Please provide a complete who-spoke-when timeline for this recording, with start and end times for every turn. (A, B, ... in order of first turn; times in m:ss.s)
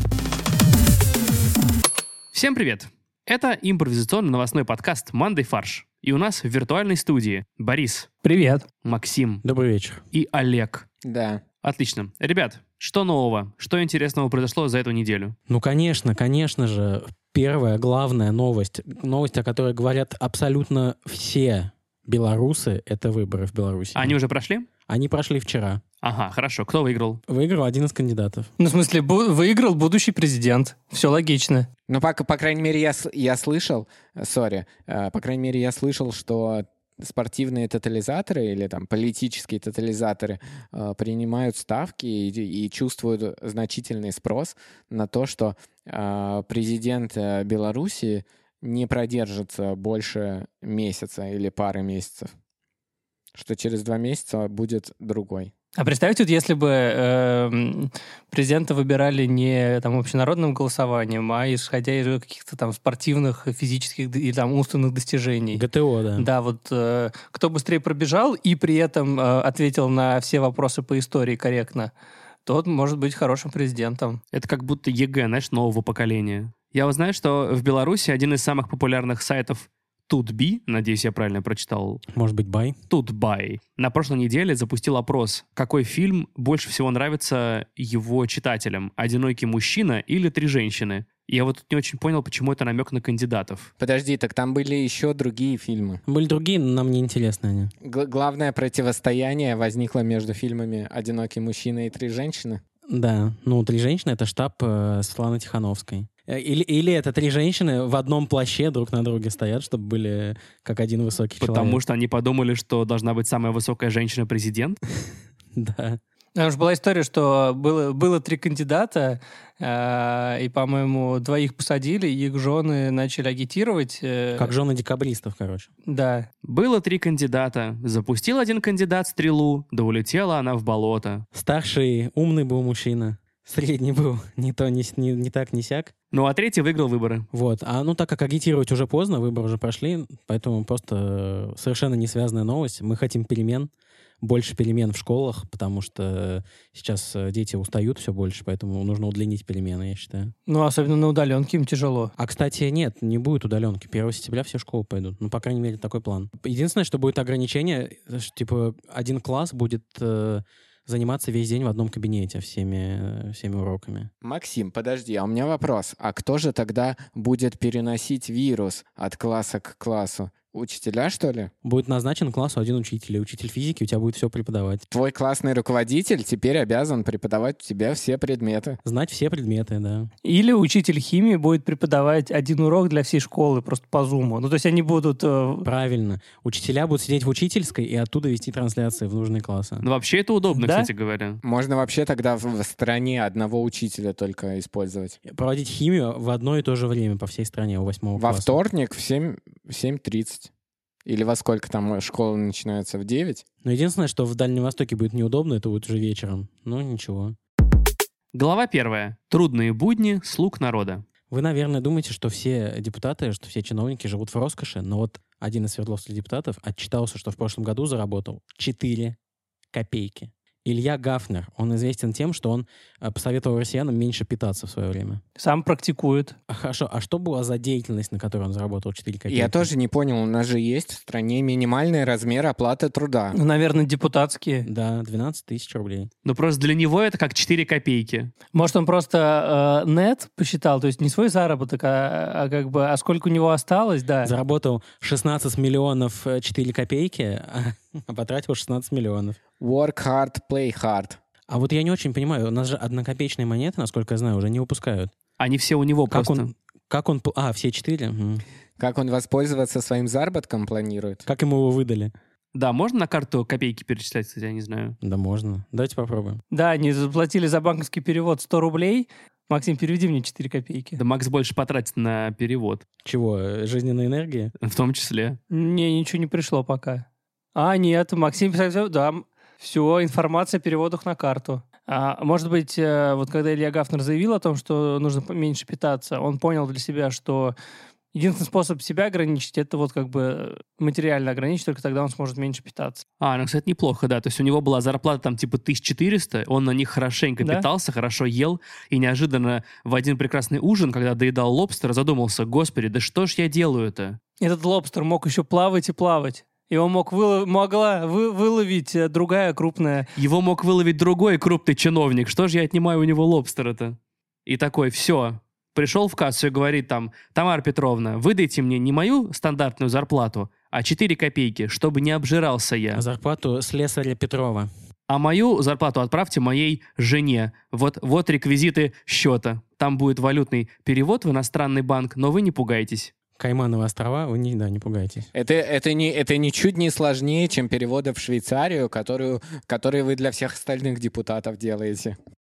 0:02.3-0:08.1 A
0:08.2-0:08.7 B
0:08.8-0:09.4 A
0:09.4-0:10.0 C
0:10.1-0:10.9 A
0:11.0-0:11.4 D
0:11.6-0:15.4 A
0:15.5-0:24.2 C
0:24.0-0:24.7 A
0:24.9-0:25.8 C
0:26.0-0:27.2 A
0:27.3-0:28.5 C
0:28.6-0:31.7 B
0:31.9-0:52.3 D
0:53.4-0:55.5 D
0:55.8-1:05.6 B
1:05.5-1:06.3 C
1:06.2-1:11.9 B
1:12.5-1:14.2 B
1:14.3-1:22.0 A
1:22.1-1:22.8 C
1:22.9-1:33.7 A
1:33.8-1:36.0 D
1:36.1-1:37.7 C
1:37.8-1:42.6 D
1:42.9-1:51.8 C
1:51.4-1:54.8 A
1:55.6-1:56.0 C
1:56.4-2:04.5 B
2:04.4-2:05.7 C
2:05.9-2:06.3 B
2:06.4-2:11.2 A
2:11.3-2:15.9 C
2:16.1-2:17.2 A
2:17.3-2:30.3 C
2:30.5-2:32.1 B
2:32.2-2:44.1 C
2:44.2-2:51.5 D
2:51.6-2:54.8 C
2:54.9-2:58.8 D
2:58.8-3:00.1 C
3:00.2-3:05.7 B
3:05.6-3:09.9 C
3:09.8-3:11.4 A
3:10.6-3:10.9 B
3:11.4-3:15.2 D
3:15.3-3:18.6 C
3:18.2-3:20.5 D
3:21.1-3:23.4 D
3:23.6-3:27.4 C
3:28.3-3:31.0 A
3:31.3-3:39.2 C
3:39.7-3:45.2 C
3:45.4-3:46.4 B
3:46.5-3:49.7 C
3:49.3-3:53.4 D
3:53.3-3:54.7 B
3:54.6-3:56.1 C
3:56.2-3:58.3 A
3:58.5-4:04.3 B
4:04.2-4:09.4 C
4:09.6-4:11.2 D
4:11.5-4:15.1 C
4:15.4-4:16.5 A
4:16.1-4:18.4 C
4:18.8-4:21.2 D
4:21.3-4:22.1 C
4:22.5-4:25.0 A
4:25.0-4:26.4 C
4:26.5-4:31.0 B
4:31.0-4:32.8 A
4:33.0-4:34.5 C
4:34.6-4:35.4 A
4:35.5-4:47.6 B
4:48.1-4:53.0 B
4:53.2-5:04.2 A
4:57.4-4:57.7 B
5:04.4-5:10.1 B
5:10.2-5:23.0 A
5:22.9-5:24.7 C
5:25.1-5:33.1 A
5:33.4-5:35.3 C
5:35.3-5:42.2 D